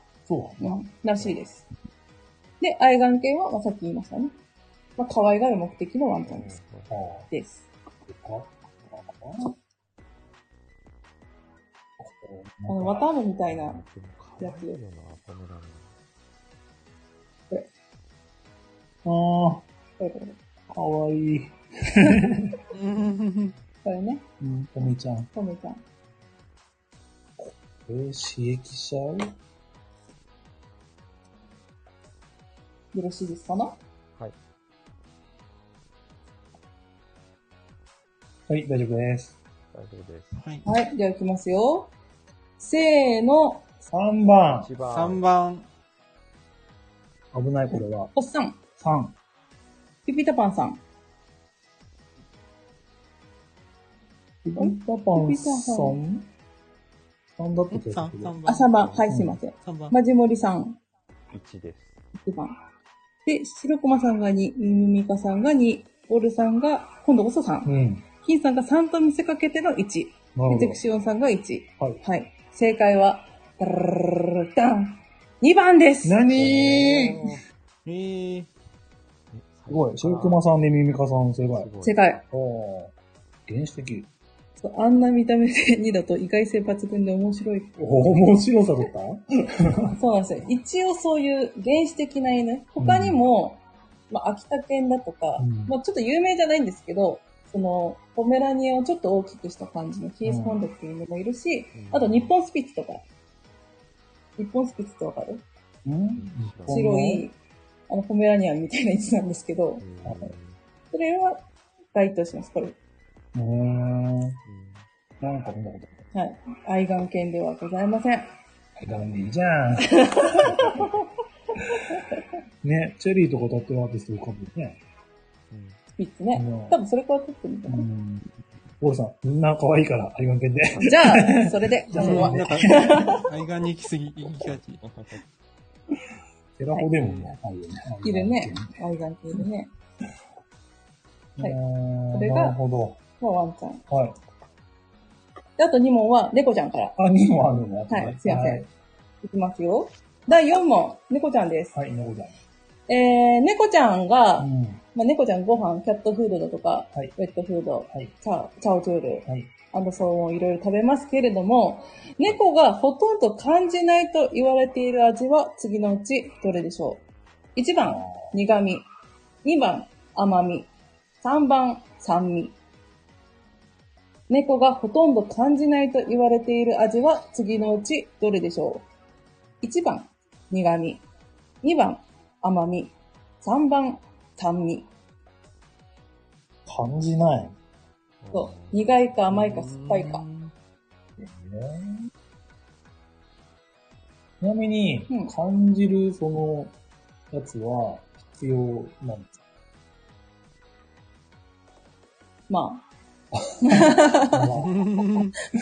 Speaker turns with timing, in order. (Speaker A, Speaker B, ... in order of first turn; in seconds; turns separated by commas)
Speaker A: 0.3-0.8, Speaker B: 0.6-1.6, Speaker B: 2.6-4.3, Speaker B: 5.0-6.6, Speaker C: 6.2-6.9, Speaker A: 6.9-7.3, Speaker B: 7.3-7.7, Speaker A: 8.0-9.5, Speaker A: 12.0-13.0, Speaker B: 12.7-13.8, Speaker C: 13.5-15.9, Speaker B: 14.4-14.8, Speaker A: 19.0-19.6, Speaker B: 20.0-20.4, Speaker A: 20.7-22.6, Speaker B: 22.0-22.3, Speaker D: 22.7-23.5, Speaker B: 23.8-24.2, Speaker A: 24.4-25.3, Speaker B: 25.3-25.8, Speaker A: 27.4-29.3, Speaker B: 32.9-33.8, Speaker A: 38.5-39.4, Speaker C: 39.7-40.4, Speaker D: 40.4-40.6, Speaker B: 40.6-41.9, Speaker B: 42.6-43.7, Speaker A: 43.9-44.7, Speaker C: 44.5-45.2, Speaker D: 44.8-45.7, Speaker A: 47.3-48.1, Speaker B: 48.1-48.6, Speaker A: 48.8-49.1, Speaker B: 50.0-50.8, Speaker A: 54.4-56.3, Speaker B: 54.6-56.0, Speaker A: 57.4-58.4, Speaker D: 57.7-58.9, Speaker B: 58.5-60.8, Speaker C: 58.8-59.0, Speaker A: 59.1-59.4, Speaker D: 59.6-60.0, Speaker C: 61.3-62.0, Speaker B: 62.2-62.5, Speaker B: 63.2-67.7, Speaker A: 67.6-68.0, Speaker B: 68.2-76.3, Speaker A: 70.3-70.8, Speaker A: 76.0-77.3, Speaker C: 76.3-77.4, Speaker D: 77.8-78.5, Speaker C: 79.3-80.4, Speaker A: 79.7-81.7, Speaker C: 81.5-82.0, Speaker B: 81.8-82.2, Speaker A: 82.3-82.9, Speaker A: 83.5-84.1, Speaker B: 84.6-87.8, Speaker A: 87.8-90.0, Speaker B: 89.9-103.0, Speaker A: 92.8-93.2, Speaker A: 95.4-95.8, Speaker A: 100.2-100.6, Speaker C: 101.7-102.3, Speaker B: 104.4-105.4, Speaker A: 105.8-107.2, Speaker C: 106.2-107.0, Speaker B: 106.7-107.3, Speaker B: 107.9-109.8, Speaker C: 109.8-110.6, Speaker A: 110.0-110.3, Speaker B: 110.9-111.4, Speaker B: 111.9-112.8, Speaker A: 113.3-114.4, Speaker C: 114.4-114.9, Speaker A: 115.2-116.0, Speaker B: 116.1-118.3, Speaker A: 118.8-120.8, Speaker B: 119.8-120.9, Speaker A: 122.6-124.8, Speaker C: 125.5-125.8, Speaker B: 126.0-127.9, Speaker A: 126.3-126.8, Speaker A: 127.7-133.2, Speaker B: 130.8-133.3, Speaker D: 131.9-134.8, Speaker C: 134.2-135.2, Speaker A: 136.6-138.8, Speaker D: 137.0-137.4, Speaker B: 138.0-139.7, Speaker A: 141.4-143.0, Speaker B: 142.1-142.6, Speaker B: 143.2-143.8, Speaker A: 143.9-144.2, Speaker B: 145.6-146.9, Speaker A: 147.0-148.7, Speaker B: 147.9-148.6, Speaker B: 149.2-151.7, Speaker A: 151.7-152.3, Speaker B: 152.9-167.0, Speaker A: 154.4-154.8, Speaker B: 167.6-168.8, Speaker A: 167.8-168.3, Speaker B: 169.4-170.7, Speaker B: 171.2-172.5, Speaker B: 174.3-178.8, Speaker B: 179.6-181.0, Speaker B: 181.6-184.9, Speaker A: 186.7-187.6, Speaker C: 188.2-188.8, Speaker B: 188.3-190.2, Speaker D: 189.3-190.5, Speaker A: 191.2-192.1, Speaker A: 194.4-196.7, Speaker A: 197.3-199.3, Speaker B: 202.5-202.8, Speaker B: 203.6-204.6, Speaker A: 204.3-204.8, Speaker D: 204.5-205.3